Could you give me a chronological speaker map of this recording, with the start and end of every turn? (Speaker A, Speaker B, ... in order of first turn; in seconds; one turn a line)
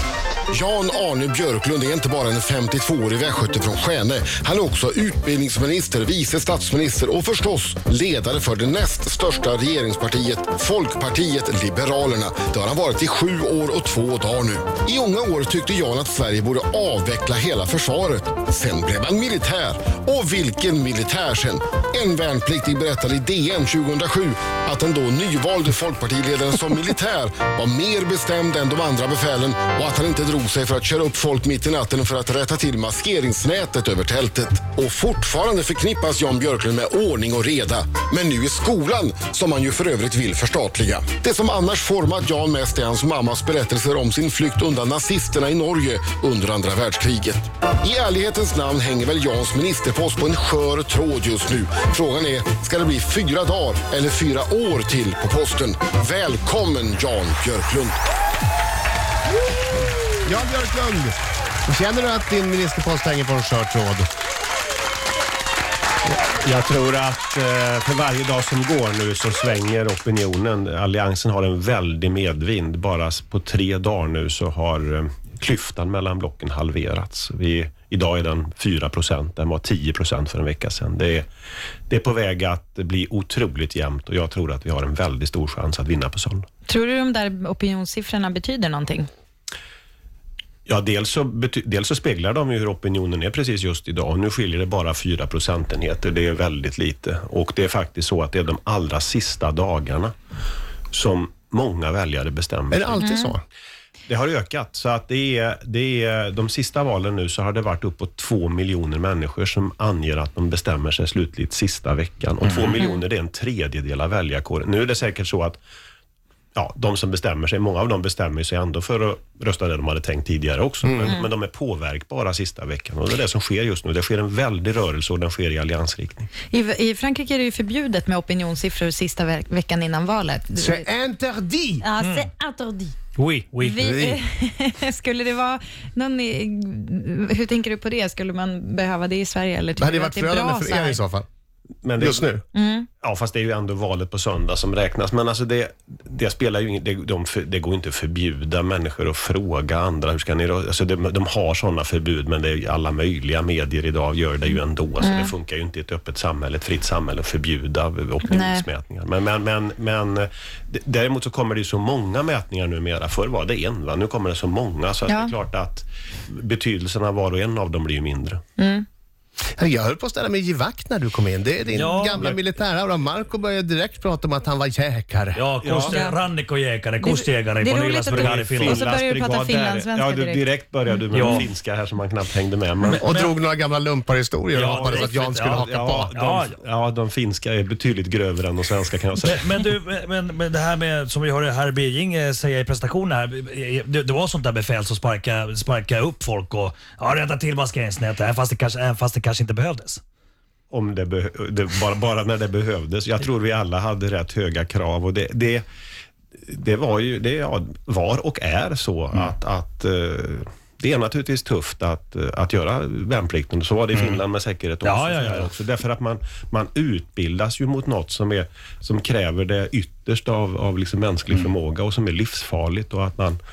Speaker A: 0.5-58.0
Speaker B: 60.2-61.1
Speaker B: 61.7-64.1
Speaker C: 66.2-81.2
Speaker C: 81.9-86.5
Speaker D: 86.7-89.1
Speaker C: 90.7-100.1
Speaker C: 100.9-103.1
Speaker B: 102.7-103.4
Speaker D: 103.0-103.3
Speaker C: 104.1-115.6
Speaker E: 112.4-112.8
Speaker C: 116.5-126.3
Speaker B: 120.8-121.1
Speaker D: 126.4-130.9
Speaker B: 130.6-131.9
Speaker D: 131.8-132.9
Speaker E: 132.0-132.3
Speaker E: 133.1-133.8
Speaker D: 133.6-141.0
Speaker B: 133.8-134.2
Speaker B: 139.8-141.2
Speaker C: 141.8-142.3
Speaker B: 142.0-142.4
Speaker D: 142.5-142.9
Speaker C: 143.0-168.4
Speaker D: 155.0-155.3
Speaker D: 158.3-158.7
Speaker D: 165.1-165.3
Speaker D: 168.6-168.8
Speaker B: 169.6-175.4
Speaker E: 171.7-172.3
Speaker C: 171.9-172.4
Speaker E: 175.3-178.9
Speaker C: 175.6-176.0
Speaker D: 175.8-176.2
Speaker D: 177.0-180.5
Speaker C: 178.1-183.3
Speaker E: 181.1-181.5
Speaker E: 182.9-183.3
Speaker B: 183.0-186.1
Speaker E: 184.5-186.6
Speaker C: 184.6-189.4
Speaker E: 189.2-200.0
Speaker C: 200.7-205.6
Speaker C: 206.4-223.4
Speaker E: 213.9-214.2
Speaker E: 214.8-215.5